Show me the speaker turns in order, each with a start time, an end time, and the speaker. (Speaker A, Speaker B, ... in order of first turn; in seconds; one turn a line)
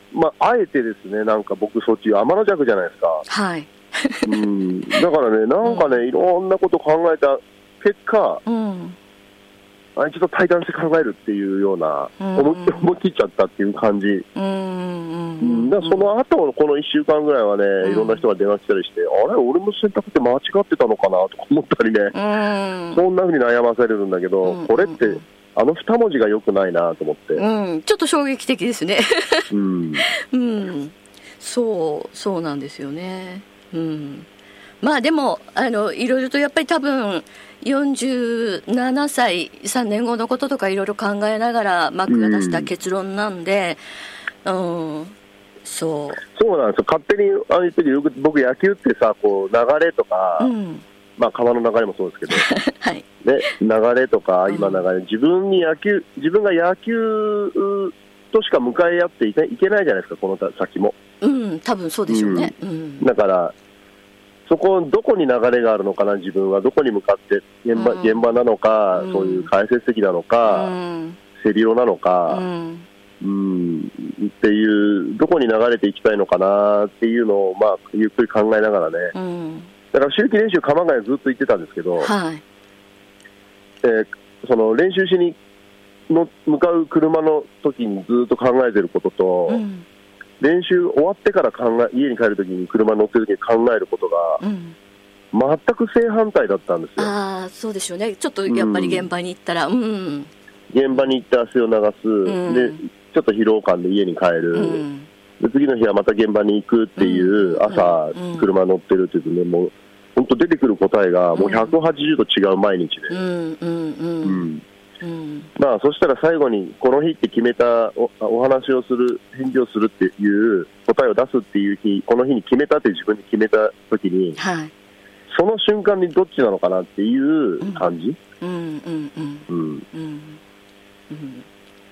Speaker A: 0.1-3.2
Speaker B: 3.3-4.4
Speaker A: 4.2-8.4
Speaker B: 5.6-6.0
Speaker B: 8.4-9.0
Speaker A: 10.0-14.2
Speaker B: 12.2-12.9
Speaker B: 14.3-16.1
Speaker A: 15.4-22.1
Speaker B: 17.8-18.2
Speaker B: 22.1-23.0
Speaker A: 22.9-27.4
Speaker B: 24.4-25.2
Speaker B: 27.4-29.5
Speaker A: 29.5-30.1
Speaker B: 30.1-34.3
Speaker B: 34.8-43.8
Speaker A: 42.1-42.7
Speaker B: 44.4-46.2
Speaker A: 46.3-50.5
Speaker B: 50.4-50.8
Speaker A: 51.2-52.5
Speaker B: 52.3-53.0
Speaker A: 53.2-61.0
Speaker B: 54.5-54.8
Speaker B: 61.2-63.1
Speaker A: 62.1-63.5
Speaker A: 64.5-70.7
Speaker B: 67.7-68.4
Speaker B: 68.9-69.5
Speaker B: 70.4-71.2
Speaker A: 71.4-72.4
Speaker B: 72.3-72.9
Speaker A: 73.2-79.1
Speaker B: 79.1-79.7
Speaker A: 79.9-82.1
Speaker B: 82.0-82.4
Speaker A: 83.8-85.3
Speaker A: 86.1-89.6
Speaker B: 89.5-89.8
Speaker A: 90.4-94.4
Speaker B: 94.4-94.8
Speaker A: 95.3-97.1
Speaker B: 97.0-100.3
Speaker A: 98.5-99.1
Speaker A: 100.7-104.8
Speaker B: 102.2-102.8
Speaker B: 104.5-105.1
Speaker A: 105.4-113.2
Speaker B: 107.0-108.5
Speaker B: 111.4-111.7
Speaker B: 113.1-114.5
Speaker A: 114.2-114.6
Speaker B: 115.0-115.5
Speaker A: 115.5-124.4
Speaker B: 124.3-124.7
Speaker A: 125.3-128.2
Speaker B: 127.6-127.9
Speaker B: 128.4-130.4
Speaker A: 129.5-129.8
Speaker B: 131.1-131.4